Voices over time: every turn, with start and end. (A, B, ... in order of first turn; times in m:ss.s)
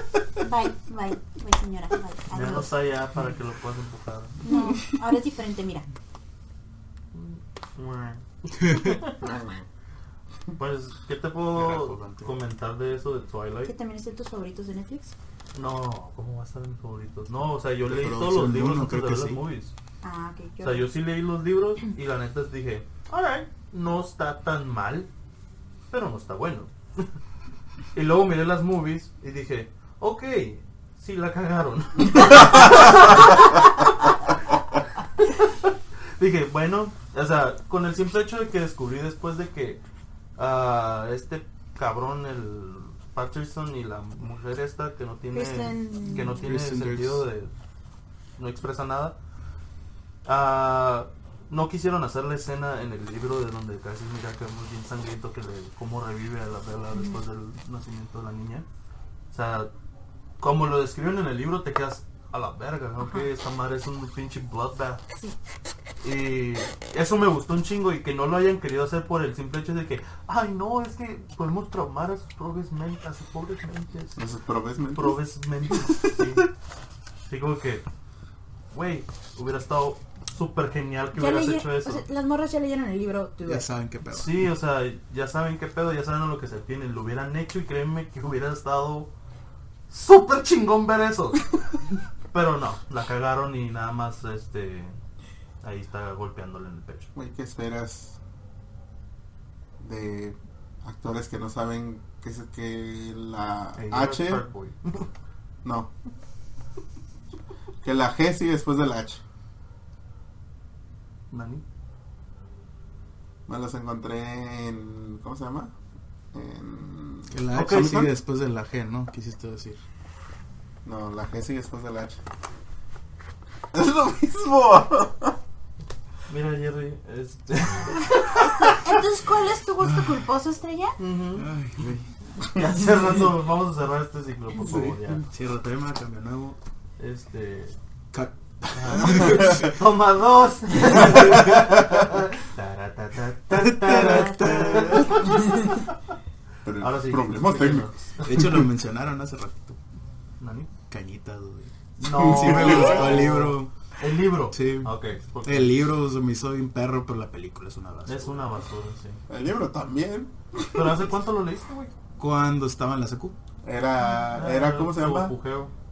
0:00.4-0:02.7 A
0:02.3-0:04.4 B
0:04.4-0:05.9 A
0:07.1-0:09.3 B
0:08.6-0:09.0 C
0:09.2-0:09.6 D
0:10.6-0:13.7 B
0:11.5-0:12.4 C
0:13.6-0:15.2 A
0:15.5-0:19.7 B
0:17.8-0:19.4 C
0:20.0-0:20.9 A
0:20.6-0:25.1 B
0:25.9-0:27.1 B
0:28.0-0:34.4 B
0:35.2-0:39.8 B
0:40.4-0:47.5 B
0:45.3-0:46.4 A
0:46.4-0:47.2 C
0:48.4-0:49.2 B
0:50.2-0:58.7 B
0:59.3-0:59.7 B
1:00.4-1:05.0 B
1:06.0-1:14.2 B
1:14.2-1:16.3 D
1:14.9-1:16.5 B
1:17.3-1:17.8 B
1:18.7-1:22.0 B
1:21.2-1:23.7 A
1:23.5-1:24.5 C
1:24.1-1:29.1 B
1:29.9-1:31.8 B
1:32.3-1:35.0 B
1:35.6-1:37.1 B
1:37.2-1:38.2 D
1:39.8-1:44.4 D
1:43.8-1:45.1 B
1:45.6-1:45.9 D
1:47.8-1:49.2 D
1:51.3-1:51.6 B
1:53.5-1:55.7 D
1:56.3-1:58.1 D
1:57.3-1:59.8 C
1:57.5-1:58.1 B
2:00.8-2:02.2 D
2:03.7-2:05.4 D
2:06.3-2:08.8 B
2:08.4-2:11.0 A
2:09.8-2:10.2 C
2:11.0-2:11.5 B
2:11.4-2:12.1 C
2:12.5-2:15.2 B
2:14.6-2:16.6 C
2:17.0-2:17.8 B
2:18.1-2:19.7 C
2:18.7-2:25.8 B
2:19.2-2:19.6 D
2:21.1-2:21.4 C
2:23.5-2:25.2 C
2:24.0-2:25.7 A
2:24.4-2:25.1 D
2:26.6-2:27.9 D
2:26.8-2:28.6 B
2:28.2-2:29.8 C
2:30.4-2:30.7 B
2:30.9-2:33.7 C
2:32.0-2:35.8 B
2:32.1-2:33.2 D
2:34.5-2:38.5 C
2:38.1-2:39.2 B
2:39.3-2:41.0 D
2:40.7-2:41.9 B
2:42.2-2:43.4 C
2:43.6-2:45.3 D
2:44.3-2:45.7 B